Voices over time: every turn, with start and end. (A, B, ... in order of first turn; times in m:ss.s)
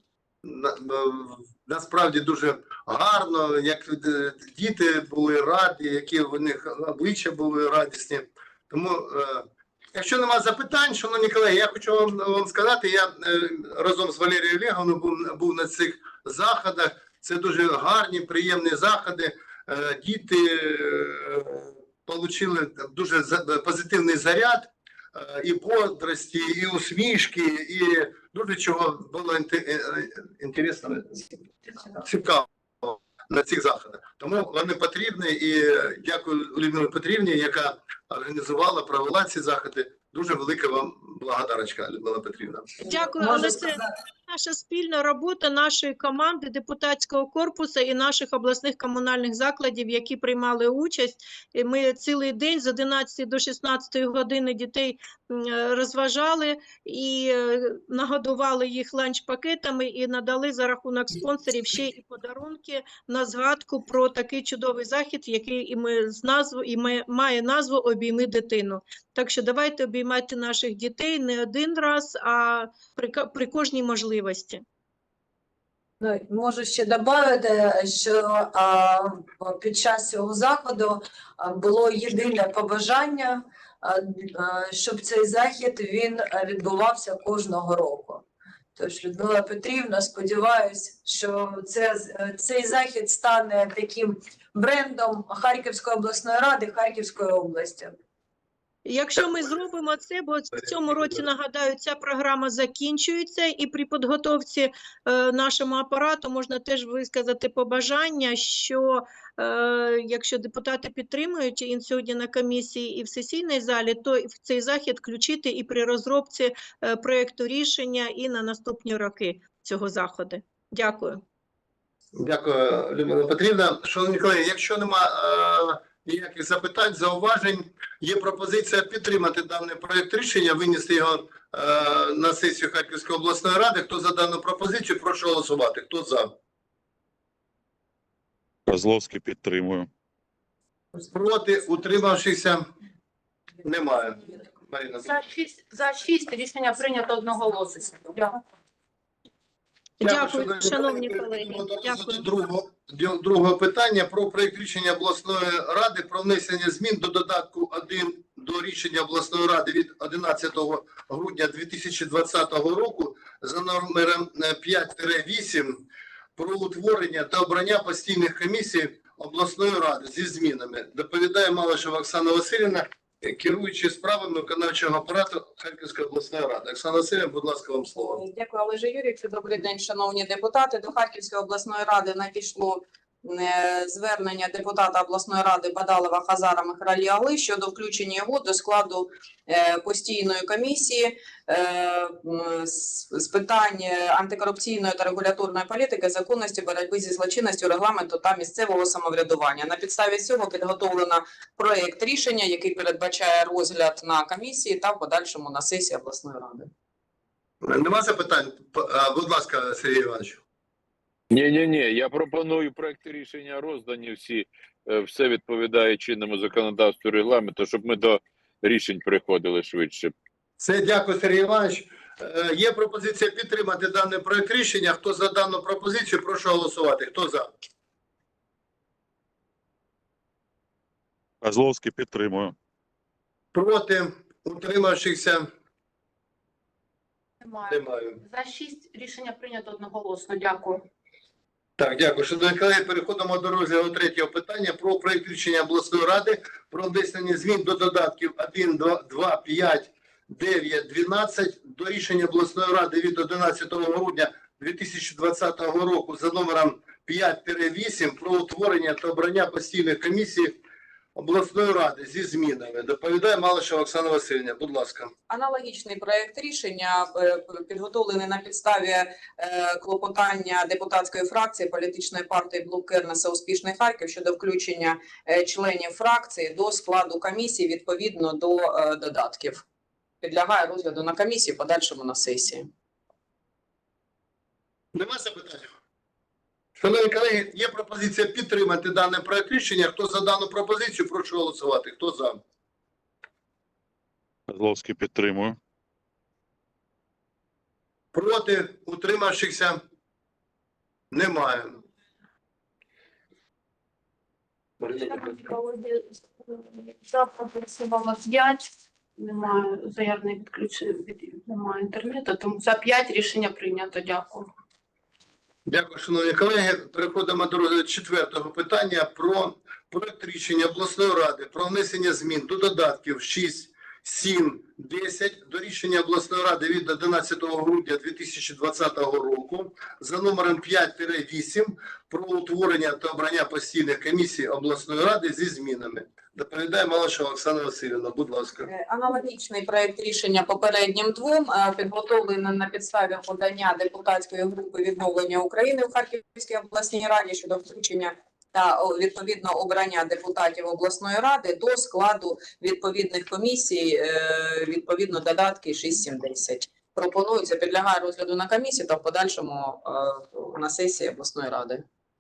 0:00.4-0:42.8 A
0:42.8-0:43.9 B
0:42.9-1:14.6 C
1:16.0-1:28.2 B
1:28.8-1:38.0 B
1:38.9-2:01.2 C
2:02.2-2:16.4 A
2:18.7-2:19.9 D
2:21.0-2:22.7 A
2:23.6-2:25.1 A
2:25.0-2:28.4 E
2:30.0-2:32.2 C
2:30.0-2:45.8 A
2:46.4-2:58.2 A
2:58.1-3:26.7 F
3:27.6-3:30.4 A
3:31.3-3:40.1 G
3:40.6-3:47.5 A
3:51.4-3:52.6 D
3:53.5-3:55.5 A
3:57.4-4:00.8 E
3:57.7-3:58.2 A
4:01.8-4:20.6 A
4:21.2-4:25.1 A
4:25.3-4:39.6 F
4:40.2-4:42.7 F
4:44.9-4:45.7 A
4:46.8-4:52.4 A
4:54.5-4:55.6 D
4:58.1-4:59.8 A
5:01.1-5:01.8 A
5:04.8-5:14.5 E
5:15.7-5:38.7 A
5:38.7-6:01.8 F